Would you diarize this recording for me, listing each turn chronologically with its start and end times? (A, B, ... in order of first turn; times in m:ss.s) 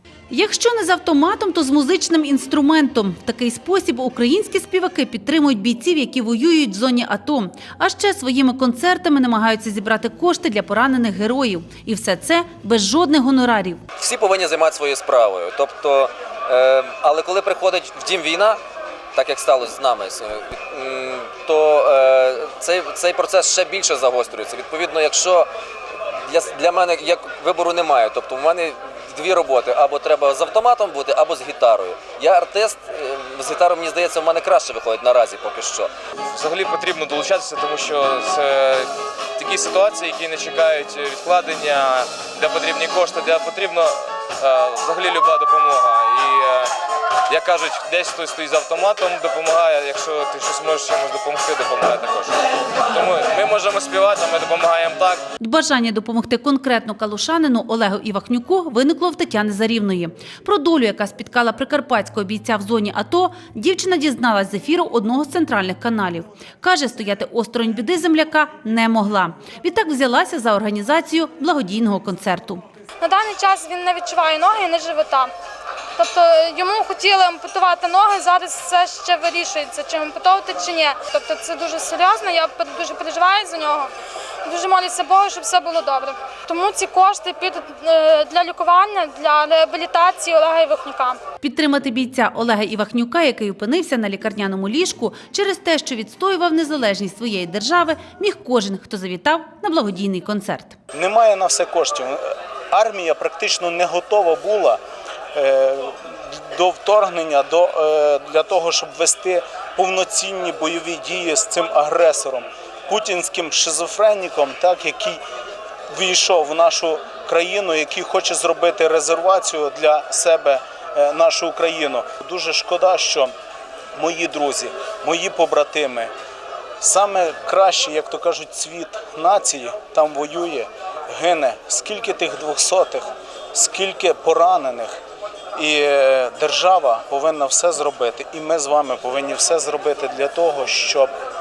0:00.3-0:13.8 A
0:14.0-0:18.6 B
0:19.1-0:25.5 B
0:26.3-0:35.9 B
0:36.3-0:46.7 C
0:47.3-0:55.2 C
0:55.4-1:12.6 A
1:13.0-1:15.3 D
1:16.0-1:23.9 D
1:24.4-1:31.2 D
1:31.4-1:40.8 A
1:40.9-1:44.8 E
1:45.3-1:55.2 E
1:55.9-2:03.3 E
2:04.0-2:06.1 E
2:06.8-2:15.0 E
2:15.5-2:21.1 E